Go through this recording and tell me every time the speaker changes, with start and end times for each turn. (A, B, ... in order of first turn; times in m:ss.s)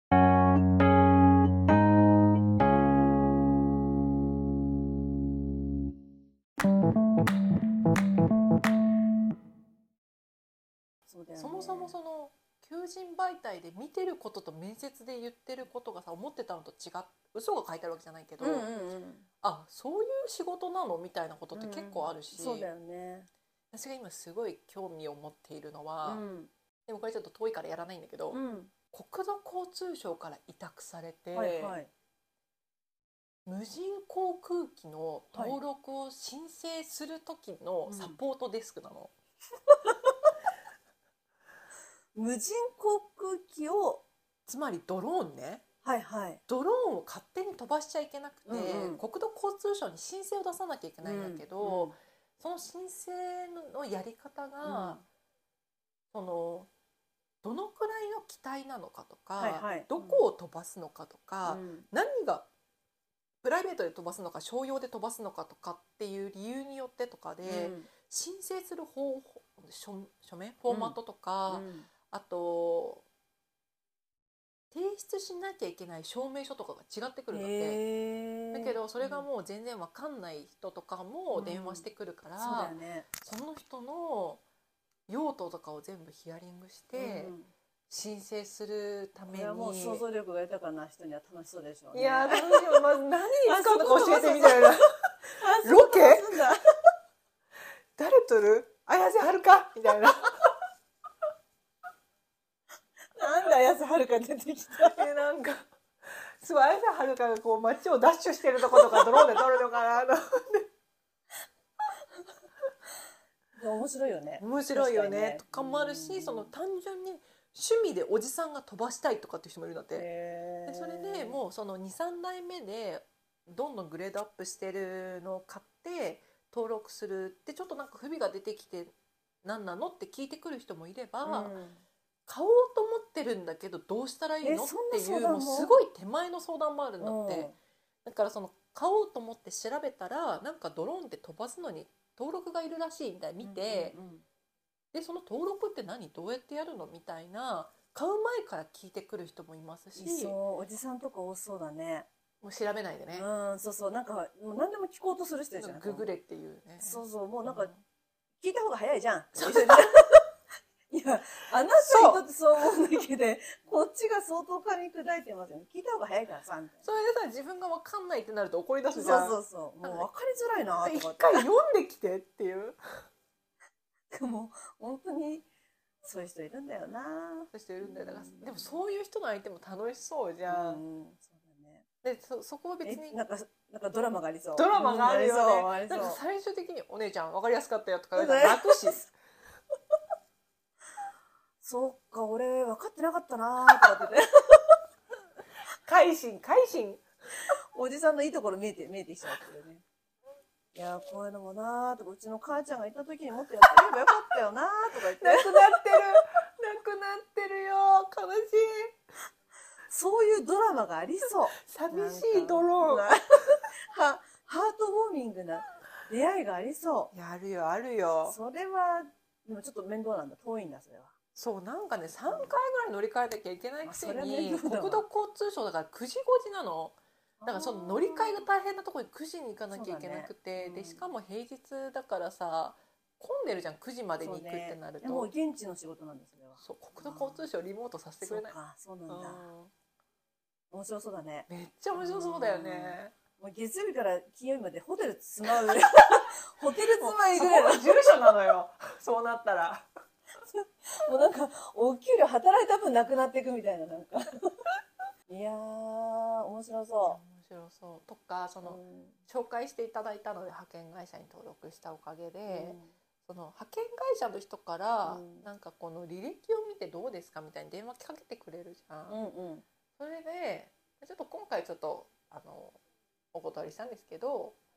0:11.1-0:11.9 A
0:11.4-0:18.7 B
0:18.4-0:19.2 A
0:19.4-0:22.7 B
0:21.5-0:23.3 A
0:23.7-0:26.2 B
0:26.0-0:26.5 A
0:26.9-0:28.4 B
0:28.3-0:28.7 A
0:28.9-0:31.8 B
0:31.3-0:31.9 A
0:33.4-0:39.1 B
0:35.3-0:35.6 A
0:37.9-0:38.2 A
0:42.1-0:44.0 A
0:44.5-0:45.6 B
0:45.8-0:46.4 A
0:46.5-0:55.0 B
0:48.5-0:49.0 A
0:51.0-0:52.0 A
0:54.6-0:55.0 A
0:56.1-0:56.7 B
0:57.4-1:02.5 B
0:59.4-1:00.2 A
1:01.4-1:01.9 A
1:03.4-1:13.0 B
1:07.4-1:07.9 A
1:10.7-1:11.0 A
1:11.5-1:11.9 A
1:14.7-1:17.8 B
1:17.3-1:19.3 A
1:18.5-1:24.4 B
1:21.3-1:21.9 A
1:22.4-1:23.1 A
1:25.1-1:27.3 B
1:26.9-1:27.5 A
1:27.9-1:30.0 B
1:29.3-1:32.9 A
1:31.9-1:34.9 B
1:33.4-1:36.6 A
1:35.6-1:36.4 B
1:38.0-1:40.5 B
1:43.2-1:45.0 A
1:44.9-1:50.6 B
1:53.5-1:56.5 A
1:54.4-2:00.0 B
1:59.9-2:01.4 A
2:00.6-2:11.5 B
2:11.2-2:11.8 A
2:12.3-2:17.5 B
2:14.4-2:15.8 A
2:17.0-2:17.5 A
2:18.0-2:23.9 B
2:23.4-2:24.2 A
2:24.9-2:30.3 B
2:30.0-2:32.1 A
2:32.4-2:33.2 B
2:33.1-2:36.1 A
2:35.6-2:37.8 B
2:36.8-2:37.7 A
2:38.4-2:40.2 A
2:39.4-2:39.9 B
2:40.9-2:46.8 A
2:41.7-2:42.2 B
2:46.8-2:50.1 B
2:48.9-2:51.4 A
2:50.8-2:52.8 B
2:54.1-2:55.5 A
2:56.0-2:58.7 A
2:57.5-3:00.8 B
3:00.5-3:01.8 A
3:02.0-3:03.2 B
3:02.8-3:06.2 A
3:04.6-3:09.1 B
3:08.1-3:09.0 A
3:11.6-3:14.7 A
3:15.8-3:17.0 B
3:17.4-3:19.8 A
3:20.7-3:26.0 A
3:25.2-3:29.0 B
3:29.9-3:37.1 A
3:31.6-3:33.1 B
3:37.1-3:38.4 B
3:38.2-3:41.1 A
3:41.3-3:55.3 B
3:43.8-3:45.0 A
3:47.4-3:48.4 A
3:49.7-3:51.0 A
3:54.2-3:57.5 A
3:56.6-3:58.5 B
3:58.2-3:59.4 A
3:59.1-3:59.7 B
4:00.7-4:08.3 A
4:01.5-4:03.1 B
4:07.0-4:09.9 B
4:10.5-4:14.6 A
4:15.3-4:17.2 A
4:17.0-4:29.2 B
4:18.6-4:19.2 A
4:22.5-4:22.9 A
4:25.0-4:25.5 A
4:29.1-4:29.6 A
4:30.0-4:32.8 B
4:33.3-4:34.6 B